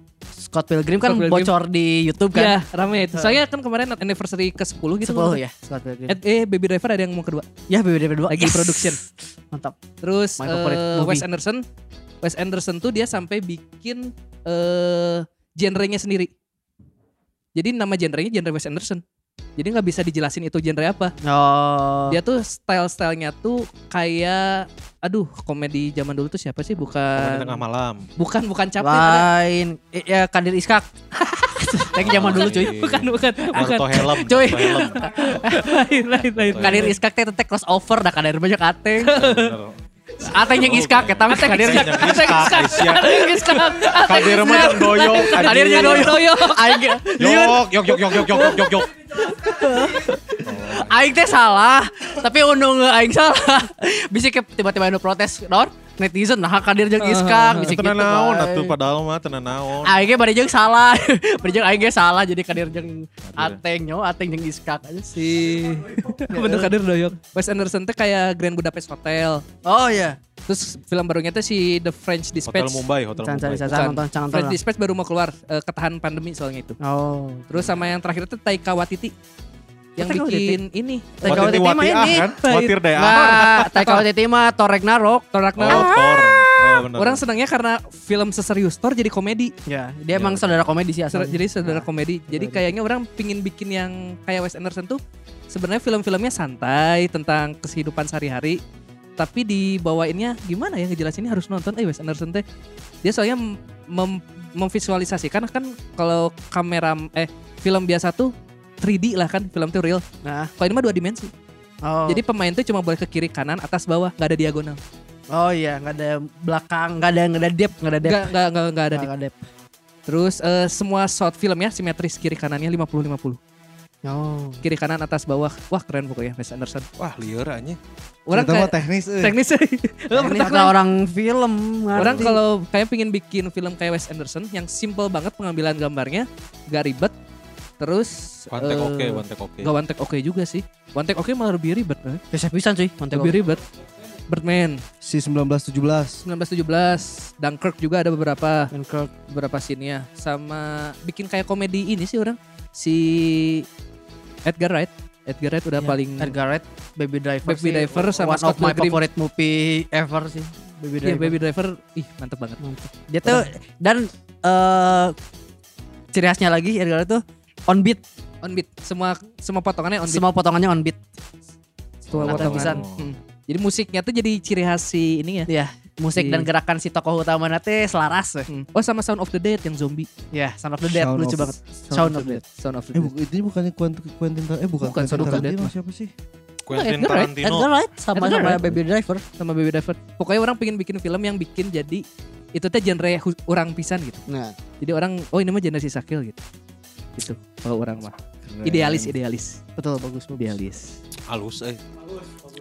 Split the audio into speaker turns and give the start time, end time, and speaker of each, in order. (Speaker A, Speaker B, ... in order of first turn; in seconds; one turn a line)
Speaker A: 0.4-2.6
Speaker B: 1.0-1.5
Speaker B: 2.3-5.4
Speaker A: 3.1-3.4
Speaker A: 5.0-6.2
Speaker B: 6.1-7.5
Speaker A: 7.7-9.8
Speaker B: 8.3-9.0
Speaker B: 10.0-11.6
Speaker A: 10.4-11.2
Speaker B: 12.2-16.3
Speaker B: 17.5-19.0
Speaker B: 19.6-21.1
Speaker A: 21.2-22.2
Speaker B: 22.1-27.6
Speaker C: 27.2-28.1
Speaker B: 28.2-29.3
Speaker A: 28.8-30.8
Speaker A: 31.4-32.8
Speaker B: 32.0-34.2
Speaker C: 32.0-35.0
Speaker A: 34.1-35.8
Speaker B: 35.0-37.0
Speaker C: 36.4-36.9
Speaker A: 36.6-39.2
Speaker B: 39.0-39.5
Speaker C: 39.1-39.7
Speaker A: 40.2-58.7
Speaker C: 40.3-43.2
Speaker B: 41.3-47.0
Speaker C: 43.9-46.2
Speaker C: 47.2-48.9
Speaker C: 50.4-51.1
Speaker B: 57.0-57.8
Speaker C: 57.6-60.0
Speaker A: 59.8-65.5
Speaker C: 63.2-63.6
Speaker B: 65.2-69.4
Speaker A: 66.3-66.7
Speaker A: 69.6-70.2
Speaker B: 70.5-72.8
Speaker C: 72.5-73.7
Speaker A: 73.2-74.6
Speaker B: 73.7-76.8
Speaker A: 76.8-77.7
Speaker B: 77.5-79.1
Speaker A: 80.0-80.6
Speaker B: 80.0-81.6
Speaker A: 81.2-82.4
Speaker C: 81.2-83.7
Speaker B: 82.1-84.0
Speaker A: 82.9-86.1
Speaker B: 85.3-86.3
Speaker C: 85.6-87.2
Speaker B: 86.9-89.5
Speaker A: 89.7-92.6
Speaker C: 90.1-90.5
Speaker B: 91.1-98.6
Speaker B: 99.2-102.4
Speaker B: 103.0-110.0
Speaker A: 110.2-110.5
Speaker B: 110.6-111.3
Speaker A: 111.8-112.2
Speaker B: 112.1-114.8
Speaker A: 115.3-118.3
Speaker B: 118.0-119.1
Speaker A: 118.9-119.4
Speaker B: 120.0-123.4
Speaker A: 124.0-124.6
Speaker B: 124.6-126.8
Speaker C: 127.0-127.8
Speaker B: 128.3-130.7
Speaker D: 128.3-129.4
Speaker A: 130.1-132.4
Speaker C: 131.9-132.3
Speaker B: 132.0-137.1
Speaker B: 137.8-142.2
Speaker C: 138.5-139.7
Speaker A: 142.3-143.3
Speaker B: 143.1-143.6
Speaker B: 144.3-144.8
Speaker D: 145.0-146.2
Speaker B: 146.2-148.7
Speaker A: 148.7-149.1
Speaker B: 149.3-153.7
Speaker B: 154.4-156.3
Speaker A: 155.8-161.3
Speaker B: 157.4-159.0
Speaker B: 161.0-162.6
Speaker A: 162.6-165.1
Speaker A: 166.1-168.0
Speaker B: 168.4-170.2
Speaker A: 170.1-171.0
Speaker C: 172.1-173.1
Speaker B: 172.1-175.5
Speaker A: 172.2-172.8
Speaker A: 175.5-178.5
Speaker B: 176.2-176.5
Speaker B: 178.5-180.1
Speaker A: 180.3-182.4
Speaker D: 180.8-181.6
Speaker B: 181.9-183.1
Speaker D: 182.9-186.1
Speaker B: 184.8-185.7
Speaker A: 185.1-185.4
Speaker C: 186.7-187.7
Speaker B: 186.7-187.3
Speaker A: 187.1-189.2
Speaker B: 188.1-188.6
Speaker B: 189.4-194.2
Speaker A: 194.3-194.5
Speaker B: 194.8-196.4
Speaker B: 197.2-199.6
Speaker D: 198.5-199.1
Speaker A: 199.8-200.6
Speaker B: 200.3-200.9
Speaker C: 201.3-201.8